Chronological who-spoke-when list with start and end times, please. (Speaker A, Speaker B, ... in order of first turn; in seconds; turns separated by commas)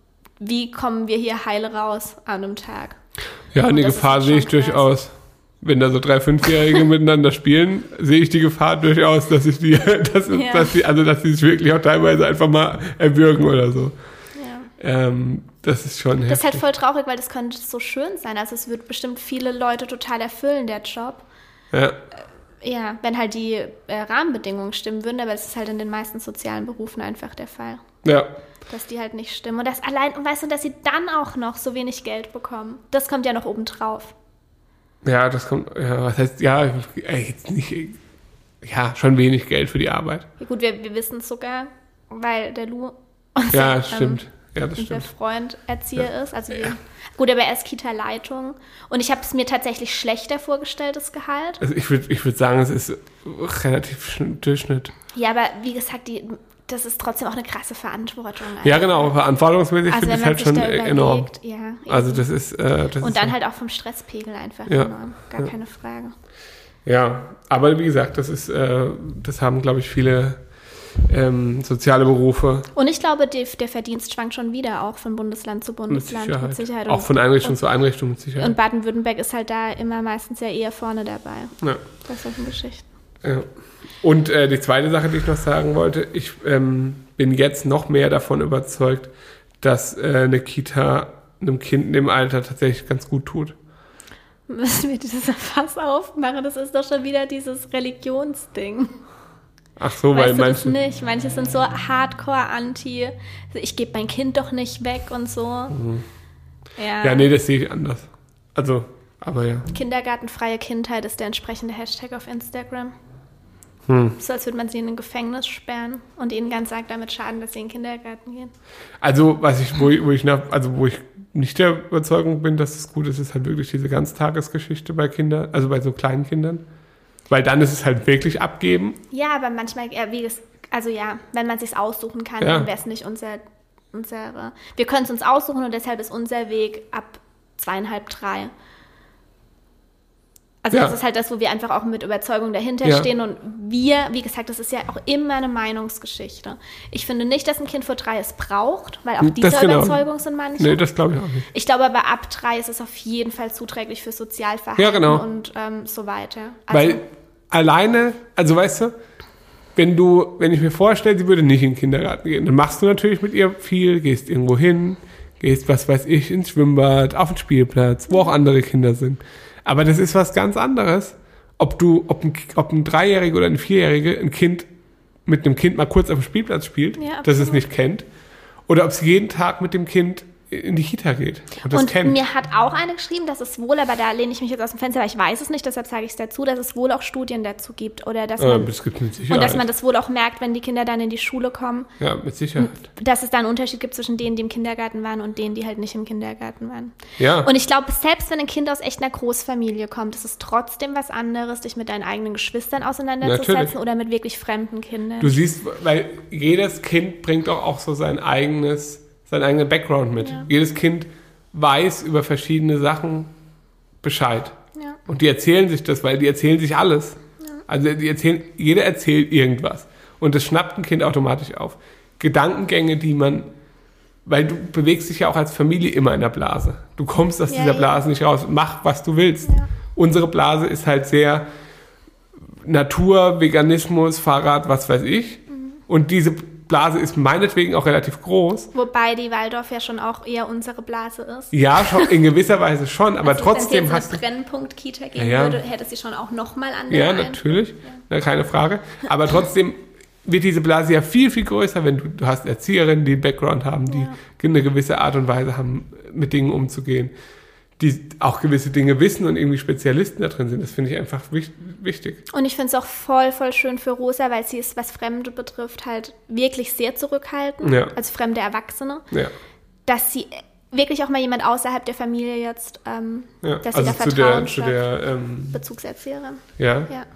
Speaker A: 0.4-4.9, Speaker B: 3.5-16.6, Speaker A: 10.3-10.7, Speaker A: 14.3-14.7, Speaker A: 16.3-21.3, Speaker A: 22.6-28.0, Speaker B: 28.0-28.3, Speaker A: 28.7-34.1, Speaker B: 35.0-38.0, Speaker B: 38.6-40.3, Speaker A: 40.4-51.6, Speaker B: 43.5-45.1, Speaker B: 51.6-54.9, Speaker A: 55.1-59.1, Speaker B: 58.6-63.4, Speaker A: 59.9-62.3, Speaker A: 63.0-66.1, Speaker B: 64.7-65.5, Speaker B: 66.8-72.7, Speaker A: 72.7-82.9, Speaker B: 75.9-78.5, Speaker B: 83.2-93.5, Speaker A: 94.5-99.0, Speaker B: 99.8-100.7, Speaker A: 100.1-105.8, Speaker B: 105.7-106.1, Speaker A: 106.8-107.3, Speaker B: 107.0-109.7, Speaker A: 109.7-112.9, Speaker B: 113.9-114.2, Speaker A: 114.2-118.5, Speaker B: 119.0-126.7, Speaker B: 127.3-129.0, Speaker A: 129.1-138.5, Speaker B: 132.4-132.7, Speaker A: 140.6-150.9, Speaker B: 149.2-150.0, Speaker B: 150.6-151.5, Speaker A: 151.5-157.0, Speaker B: 154.8-155.2, Speaker B: 156.7-159.2, Speaker B: 159.7-174.7, Speaker B: 175.2-182.2, Speaker A: 177.0-177.6, Speaker A: 181.7-188.7, Speaker B: 188.4-189.6, Speaker A: 189.3-191.9, Speaker B: 192.0-192.8, Speaker A: 192.6-205.4, Speaker B: 197.2-197.5, Speaker B: 203.2-203.7, Speaker B: 205.2-213.3, Speaker A: 210.2-210.5, Speaker B: 214.0-223.5, Speaker A: 214.7-215.0, Speaker B: 224.2-231.5, Speaker A: 227.5-227.9, Speaker B: 232.6-238.7, Speaker A: 235.5-235.8, Speaker A: 238.7-242.1, Speaker B: 241.5-244.2, Speaker A: 243.2-248.0, Speaker B: 245.2-245.6, Speaker B: 246.9-257.1, Speaker A: 253.9-254.2, Speaker B: 257.7-262.2, Speaker A: 262.3-269.1, Speaker B: 267.6-267.9, Speaker A: 269.9-277.1, Speaker B: 273.4-275.6, Speaker B: 276.6-276.9